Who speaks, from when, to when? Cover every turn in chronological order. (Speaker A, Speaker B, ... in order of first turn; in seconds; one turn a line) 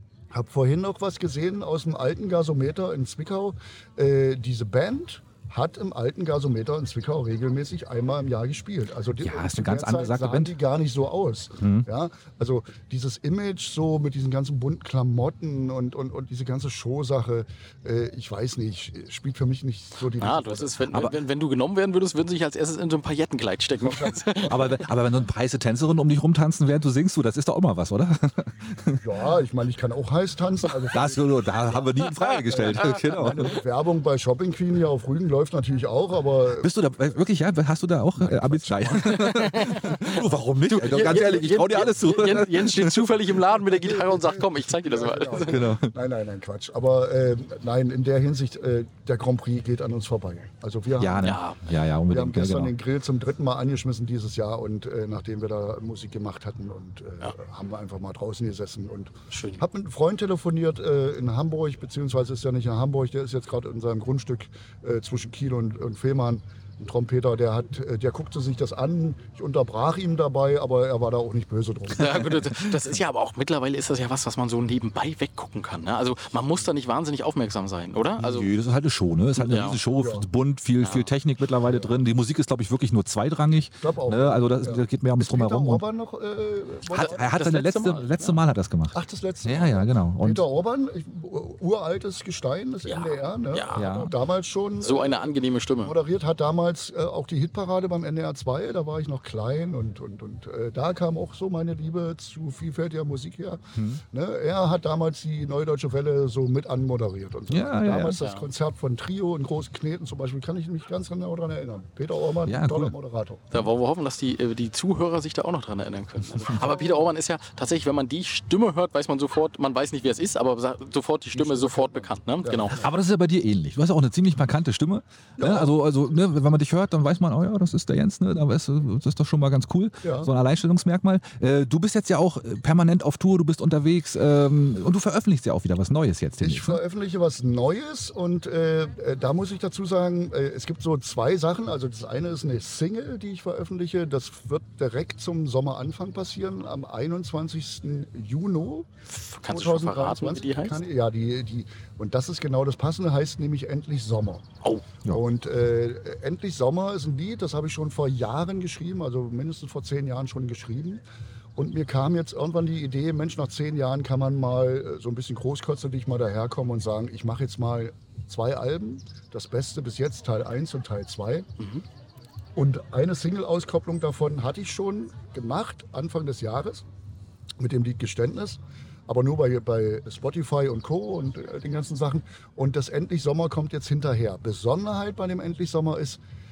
Speaker A: 0.3-20.9
Speaker B: 9.2-10.6
Speaker B: 11.6-11.9
Speaker C: 20.2-24.6
Speaker A: 23.8-24.8
Speaker B: 24.5-29.1
Speaker A: 29.0-31.4
Speaker B: 30.9-33.6
Speaker C: 31.7-33.4
Speaker A: 32.5-36.7
Speaker B: 36.6-43.1
Speaker C: 39.0-45.7
Speaker A: 40.9-41.4
Speaker A: 43.5-51.4
Speaker B: 45.5-45.9
Speaker B: 51.0-52.7
Speaker C: 51.2-51.6
Speaker A: 52.1-72.3
Speaker C: 59.3-59.6
Speaker C: 71.9-78.5
Speaker B: 78.2-85.8
Speaker C: 79.4-79.8
Speaker A: 79.9-80.3
Speaker C: 80.8-81.1
Speaker A: 81.7-82.0
Speaker A: 83.8-87.3
Speaker B: 86.9-90.5
Speaker C: 86.9-88.4
Speaker A: 88.9-95.3
Speaker C: 92.9-93.9
Speaker B: 93.8-94.1
Speaker C: 94.8-96.0
Speaker A: 95.8-113.5
Speaker B: 103.8-104.0
Speaker B: 107.5-108.2
Speaker C: 108.2-108.5
Speaker B: 112.5-113.0
Speaker C: 113.5-122.8
Speaker A: 116.5-116.9
Speaker A: 121.3-122.9
Speaker B: 122.8-136.8
Speaker A: 125.4-125.7
Speaker A: 130.0-130.3
Speaker A: 136.4-148.9
Speaker C: 149.1-150.8
Speaker A: 149.5-154.4
Speaker A: 155.1-161.0
Speaker A: 161.6-171.5
Speaker A: 172.6-176.8
Speaker A: 177.6-186.2